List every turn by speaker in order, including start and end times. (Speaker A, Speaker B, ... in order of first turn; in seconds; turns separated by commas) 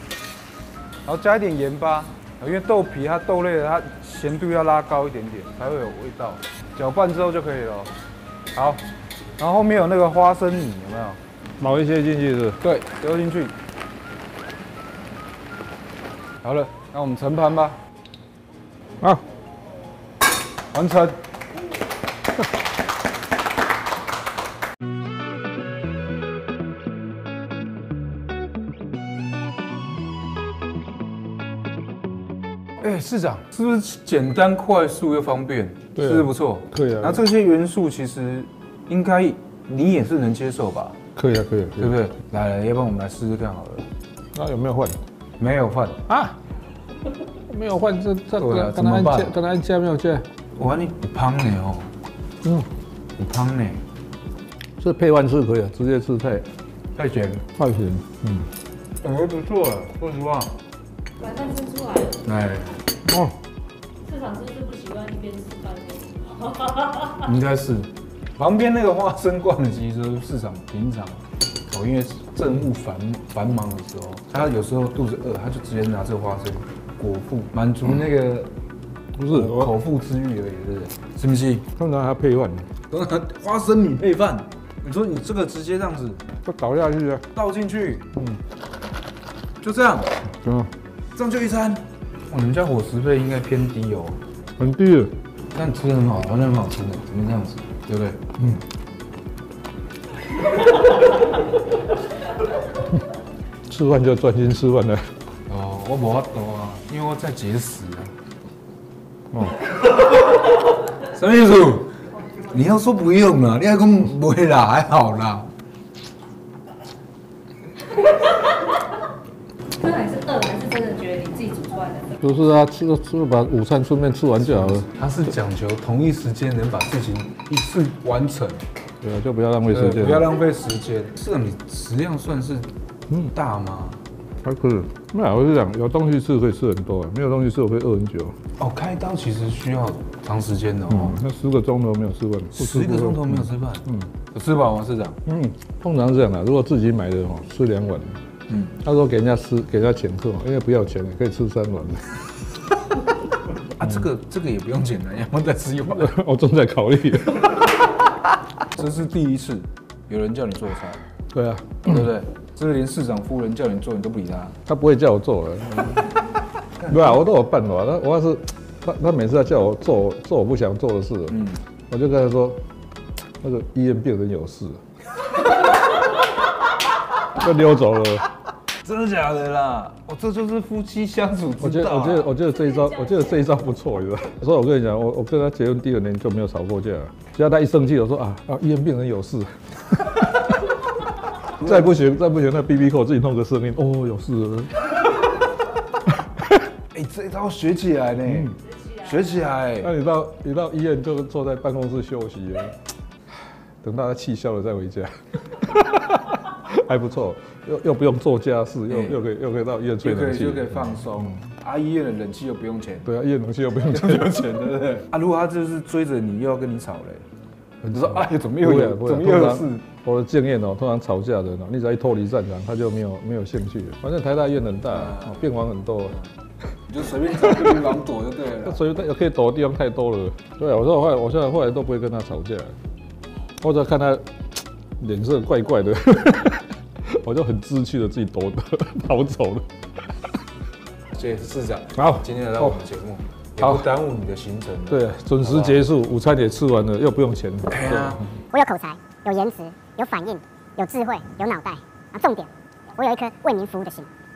Speaker A: 1.1-7.9, Speaker A: 8.5-8.8, Speaker A: 9.4-11.2, Speaker B: 11.6-12.6, Speaker A: 12.6-13.5, Speaker A: 16.4-17.8, Speaker A: 20.7-21.2, Speaker A: 32.8-41.0, Speaker B: 36.0-37.2, Speaker B: 41.2-41.9, Speaker A: 41.8-43.9, Speaker B: 44.3-45.0, Speaker A: 45.4-46.0, Speaker B: 46.1-46.4, Speaker B: 47.5-50.3, Speaker A: 48.4-49.4, Speaker A: 50.6-51.9, Speaker A: 53.2-53.8, Speaker B: 54.8-56.5, Speaker A: 57.0-57.5, Speaker B: 57.5-58.5, Speaker A: 59.0-60.5, Speaker C: 61.2-62.1, Speaker A: 62.2-62.8, Speaker B: 63.1-63.4, Speaker C: 64.0-67.1, Speaker A: 67.1-78.5, Speaker B: 79.2-79.7, Speaker A: 79.3-81.7, Speaker B: 81.8-82.7, Speaker A: 82.9-86.2, Speaker B: 86.4-87.3, Speaker A: 87.3-88.1, Speaker B: 88.2-88.4, Speaker A: 89.6-90.2, Speaker B: 90.4-90.7, Speaker A: 91.2-94.2, Speaker B: 94.6-95.2, Speaker A: 95.5-98.2, Speaker B: 103.7-105.1, Speaker A: 105.5-108.1, Speaker B: 109.3-109.6, Speaker A: 111.0-115.5, Speaker C: 119.8-122.2, Speaker B: 122.2-124.9, Speaker A: 124.6-128.6, Speaker B: 129.0-130.3, Speaker A: 129.7-132.7, Speaker A: 133.2-134.0, Speaker B: 134.4-138.4, Speaker A: 138.6-141.2, Speaker B: 140.9-144.1, Speaker A: 142.5-145.2, Speaker B: 145.3-148.2, Speaker A: 148.5-148.7, Speaker B: 148.7-152.4, Speaker A: 153.6-156.1, Speaker B: 155.9-157.6, Speaker A: 158.7-161.1, Speaker B: 161.3-162.1, Speaker A: 161.8-164.6, Speaker B: 164.7-166.1, Speaker A: 166.8-167.2, Speaker B: 166.9-171.4, Speaker A: 171.3-171.6, Speaker B: 171.9-172.6, Speaker B: 173.4-174.8, Speaker B: 177.3-178.3, Speaker A: 178.8-182.3, Speaker B: 181.6-190.7, Speaker B: 191.4-194.8, Speaker A: 191.4-191.9, Speaker B: 196.1-196.5, Speaker A: 196.9-199.9, Speaker B: 198.3-198.5, Speaker B: 199.8-202.8, Speaker B: 203.8-211.3, Speaker A: 208.9-209.3, Speaker A: 210.0-213.1, Speaker B: 213.1-214.7, Speaker A: 213.9-217.2, Speaker B: 217.8-226.2, Speaker A: 217.9-219.9, Speaker A: 224.9-225.5, Speaker A: 226.9-228.8, Speaker B: 227.5-227.9, Speaker B: 228.6-232.8, Speaker B: 233.6-239.7, Speaker A: 241.1-245.8, Speaker B: 242.0-242.8, Speaker B: 243.6-243.8, Speaker B: 244.9-248.3, Speaker A: 247.7-248.3, Speaker D: 248.5-254.1